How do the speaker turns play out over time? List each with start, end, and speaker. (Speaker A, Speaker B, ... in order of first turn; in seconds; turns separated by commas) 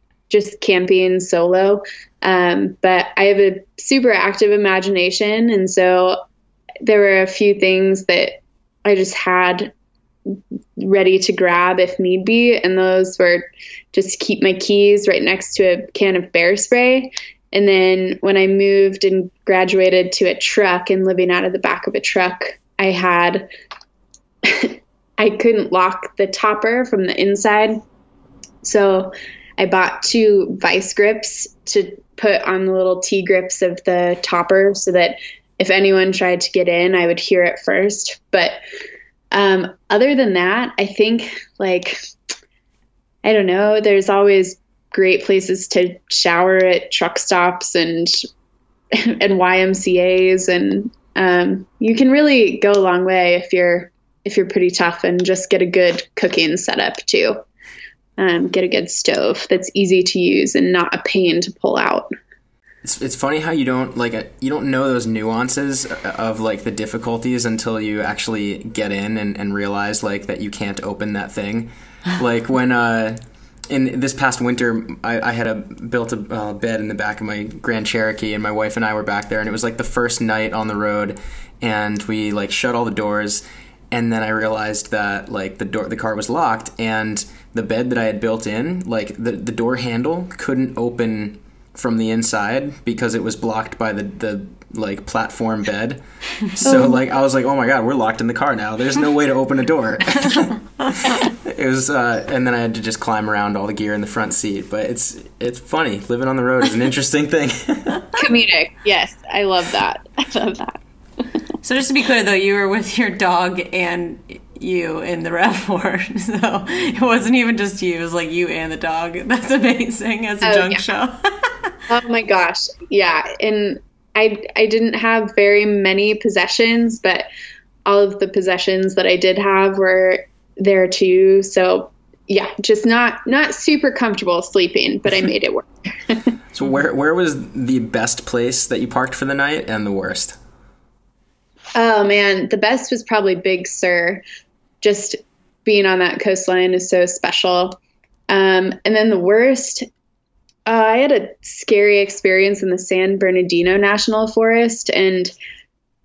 Speaker A: 0.3-6.2, Speaker A: 6.8-9.7, Speaker A: 10.3-23.5, Speaker A: 24.4-27.8, Speaker A: 28.6-38.6, Speaker A: 39.3-42.0, Speaker A: 43.2-48.2, Speaker A: 48.9-57.4, Speaker A: 58.2-62.1, Speaker B: 62.8-73.2, Speaker B: 73.7-108.1, Speaker A: 96.7-97.0, Speaker A: 108.2-110.8, Speaker C: 111.6-121.7, Speaker A: 120.4-120.8, Speaker A: 121.9-127.3, Speaker A: 127.9-136.3, Speaker B: 136.5-140.4, Speaker A: 141.8-144.2, Speaker A: 144.8-147.8, Speaker A: 148.3-149.9, Speaker A: 150.7-155.3